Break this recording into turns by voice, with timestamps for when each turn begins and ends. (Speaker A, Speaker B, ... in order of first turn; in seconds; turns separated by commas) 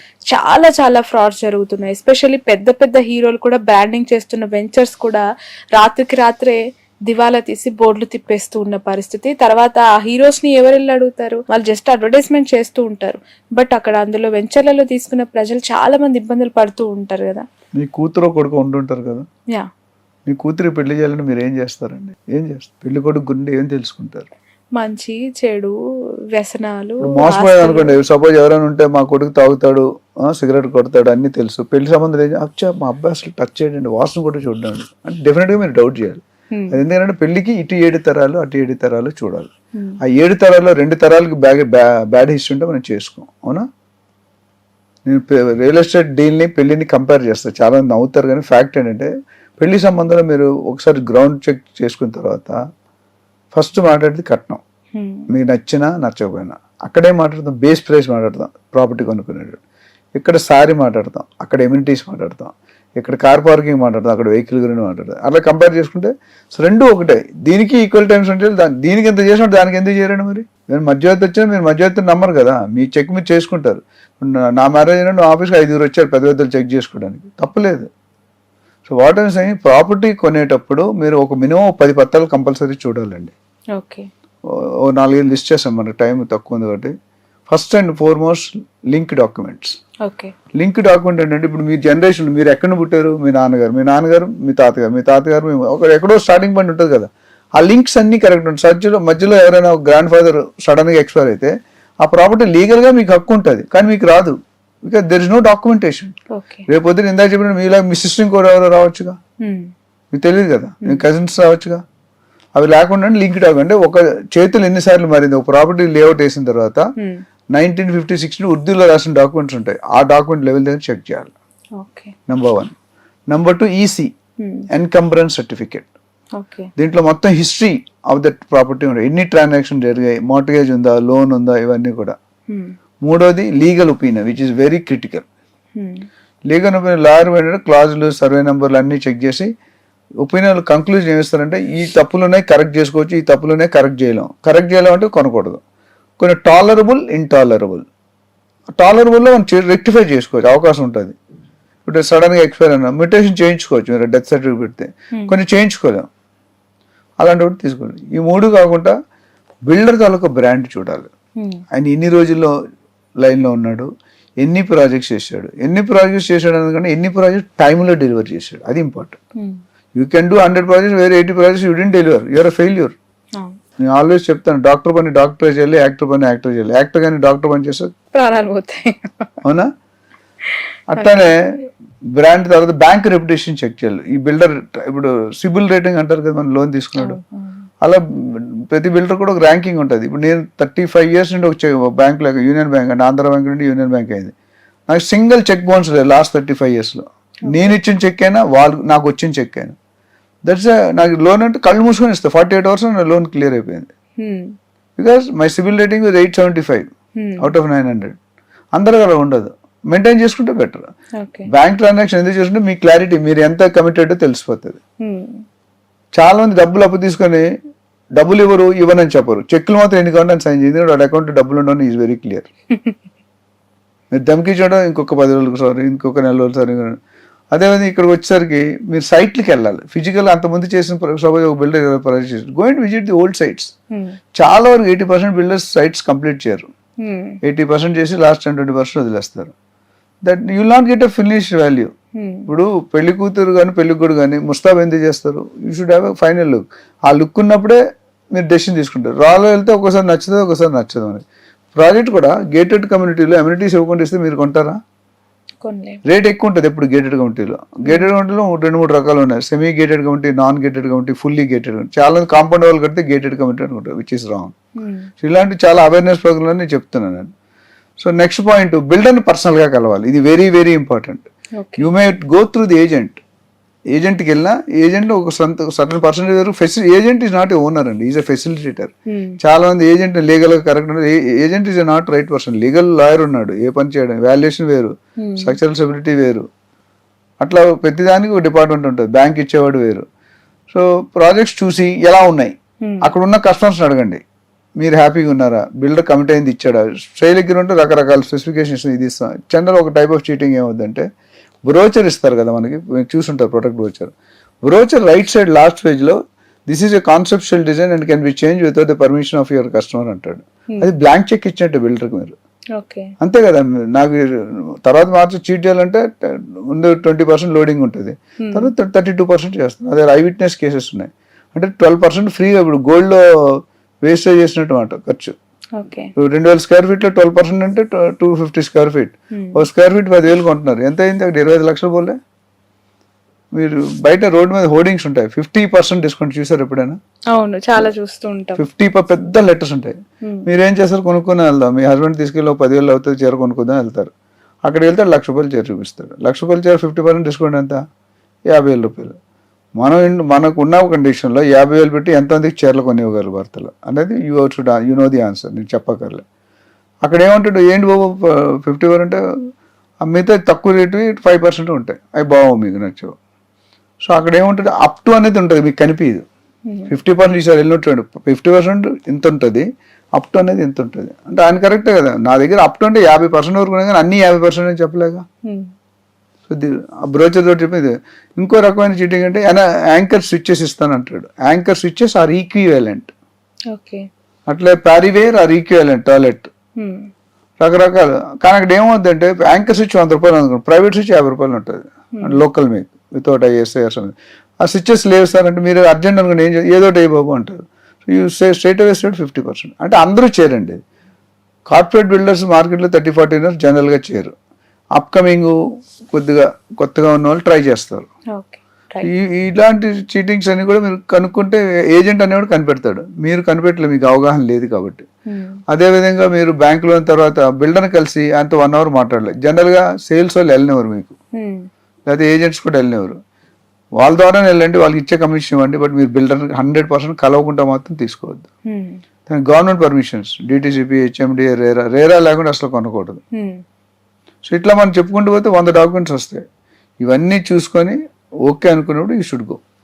Speaker A: 0.3-5.2, Speaker A: 5.7-17.5, Speaker B: 17.8-19.2, Speaker B: 20.3-24.3, Speaker A: 24.8-25.7, Speaker A: 26.3-28.0, Speaker B: 27.0-39.5, Speaker A: 36.5-36.8, Speaker B: 40.0-43.7, Speaker B: 45.0-52.6, Speaker B: 53.5-54.6, Speaker A: 55.0-55.3, Speaker B: 55.3-59.6, Speaker B: 60.2-77.9, Speaker B: 78.8-83.3, Speaker A: 83.7-84.1, Speaker B: 84.5-86.9, Speaker B: 87.5-89.8, Speaker A: 90.0-90.3, Speaker B: 90.5-106.1, Speaker A: 106.3-106.6, Speaker B: 106.7-109.2, Speaker A: 109.4-109.7, Speaker B: 110.1-111.8, Speaker B: 112.5-116.8, Speaker A: 117.0-117.2, Speaker B: 117.5-121.3, Speaker A: 121.8-122.1, Speaker B: 122.3-122.7, Speaker B: 123.3-124.1, Speaker B: 124.7-125.9, Speaker A: 126.4-126.7, Speaker B: 126.8-132.2, Speaker B: 133.0-135.2, Speaker A: 135.8-136.1, Speaker B: 136.5-139.5, Speaker B: 140.2-145.6, Speaker B: 146.2-147.8, Speaker B: 148.8-151.2, Speaker B: 151.8-156.1, Speaker B: 157.2-158.9, Speaker B: 159.7-161.1, Speaker B: 161.7-162.5, Speaker B: 163.2-169.2, Speaker B: 169.9-172.9, Speaker B: 173.8-177.9, Speaker A: 178.1-179.3, Speaker B: 179.4-179.7, Speaker B: 180.9-181.6, Speaker A: 180.9-181.3, Speaker B: 182.1-187.2, Speaker A: 187.0-187.6, Speaker B: 187.8-194.3, Speaker B: 194.9-199.8, Speaker A: 197.5-197.7, Speaker B: 200.4-203.9, Speaker A: 204.2-204.5, Speaker B: 205.0-206.9, Speaker A: 207.2-207.5, Speaker B: 207.4-208.2, Speaker B: 208.7-210.9, Speaker A: 211.2-211.5, Speaker B: 211.5-214.8, Speaker A: 215.0-215.4, Speaker B: 216.1-217.5, Speaker B: 218.2-222.5, Speaker B: 224.1-227.0, Speaker B: 227.5-233.7, Speaker B: 234.4-236.7, Speaker A: 237.0-237.3, Speaker B: 237.4-239.5, Speaker B: 240.2-241.9, Speaker A: 242.2-242.5, Speaker B: 242.5-247.8, Speaker B: 248.3-251.2, Speaker B: 251.8-254.8, Speaker A: 255.6-256.0, Speaker B: 256.1-264.5, Speaker A: 257.9-258.1, Speaker A: 264.8-265.1, Speaker B: 265.2-267.3, Speaker B: 268.0-273.2, Speaker A: 271.6-271.9, Speaker B: 273.9-286.4, Speaker A: 279.1-279.4, Speaker A: 285.2-285.6, Speaker B: 287.4-290.1, Speaker B: 290.7-294.2, Speaker A: 292.8-293.1, Speaker B: 294.8-301.1, Speaker B: 301.7-304.1, Speaker B: 304.7-312.4, Speaker A: 312.8-313.1, Speaker B: 313.2-325.4, Speaker A: 318.4-318.7, Speaker A: 325.8-326.1, Speaker B: 326.2-332.2, Speaker A: 329.3-329.7, Speaker B: 333.6-337.0, Speaker A: 337.3-338.6, Speaker B: 338.6-344.1, Speaker B: 344.7-347.8, Speaker B: 348.5-349.1, Speaker B: 349.8-356.2, Speaker B: 357.1-359.2, Speaker B: 360.1-363.2, Speaker B: 364.1-366.2, Speaker B: 366.9-375.2, Speaker B: 376.5-383.1, Speaker A: 383.7-384.1, Speaker B: 384.5-386.5, Speaker A: 386.8-387.1, Speaker B: 387.6-400.8, Speaker B: 401.7-404.3, Speaker B: 405.0-405.6, Speaker B: 406.1-408.1, Speaker A: 408.4-409.1, Speaker B: 409.0-415.1, Speaker A: 415.3-415.6, Speaker B: 415.7-421.2, Speaker A: 421.4-421.7, Speaker B: 422.1-423.2, Speaker B: 424.0-428.5, Speaker A: 428.7-429.0, Speaker B: 429.3-433.2, Speaker A: 433.4-433.6, Speaker B: 434.5-436.4, Speaker B: 437.0-439.6